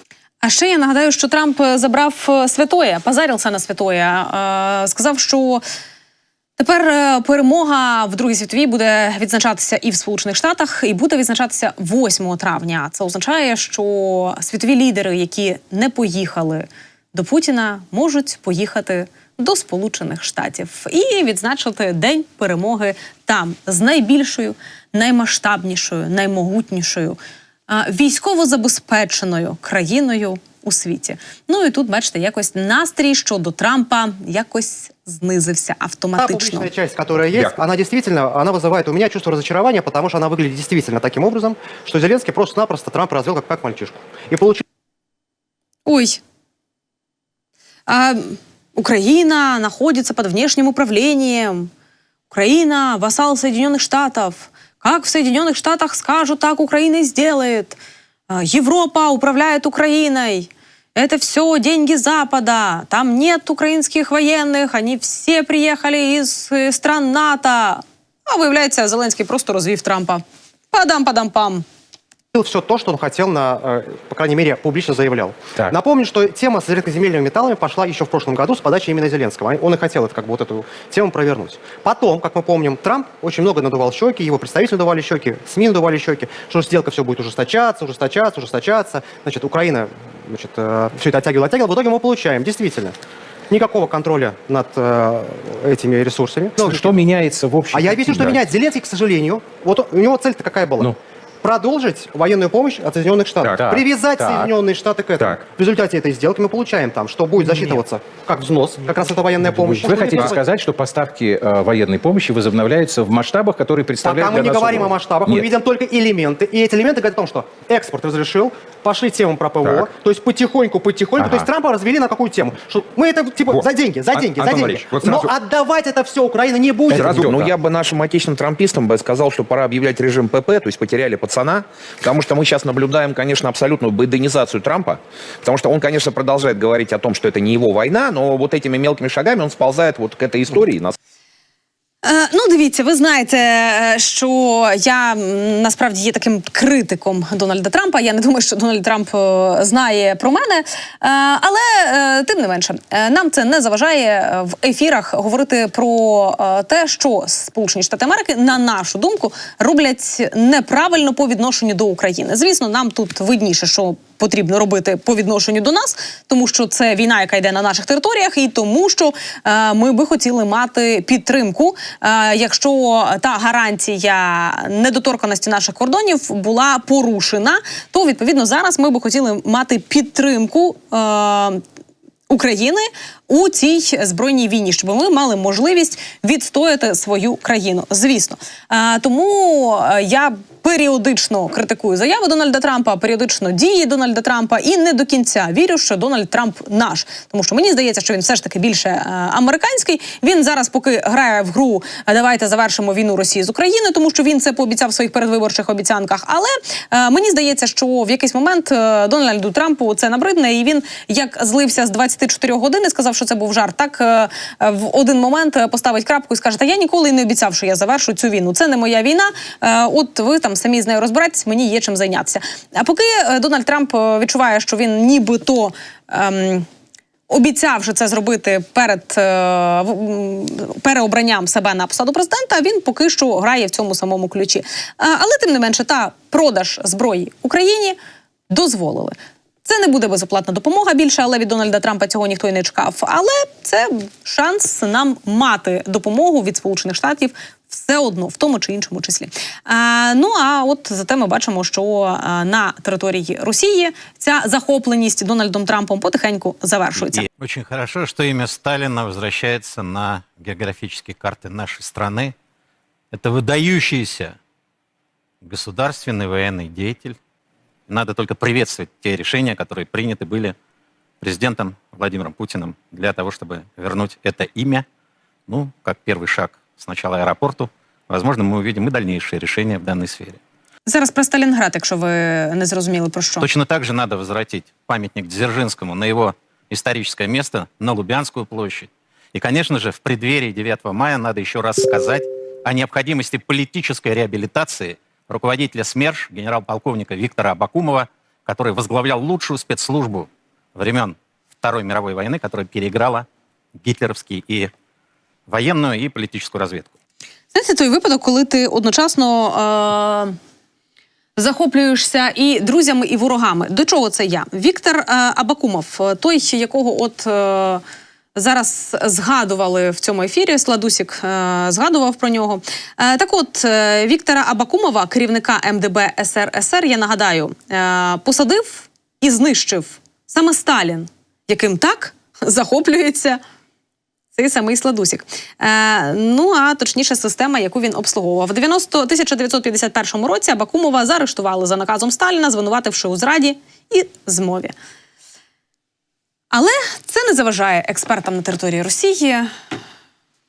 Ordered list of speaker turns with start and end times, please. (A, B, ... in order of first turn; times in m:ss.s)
0:00.4-0:05.6 A
0:06.6-0:27.2 A
0:27.7-0:36.7 A
0:36.2-0:44.6 B
0:45.8-0:46.2 A
0:47.9-0:51.7 A
0:52.3-1:11.6 A
1:12.3-1:32.9 B
1:33.5-1:37.0 B
1:36.6-1:38.4 C
1:37.7-1:50.4 B
1:43.4-1:44.5 C
1:47.5-1:47.7 C
1:49.4-1:55.4 C
1:54.0-2:07.3 B
2:01.2-2:01.5 C
2:04.3-2:05.2 D
2:06.9-2:20.9 D
2:07.2-2:07.4 C
2:22.0-3:01.6 A
3:02.3-3:46.7 A
3:47.3-3:58.0 A
3:58.5-4:17.2 A
4:17.0-4:22.3 E
4:23.1-4:24.4 E
4:25.4-4:27.2 E
4:27.9-4:30.5 E
4:31.2-4:34.8 E
4:35.5-4:40.4 E
4:40.9-4:43.5 A
4:43.4-5:03.2 E
5:03.8-5:04.7 E
5:05.5-5:06.9 E
5:07.5-5:10.3 A
5:11.4-5:17.8 A
5:18.3-5:33.4 A
5:34.3-5:44.7 A
5:46.5-5:49.5 A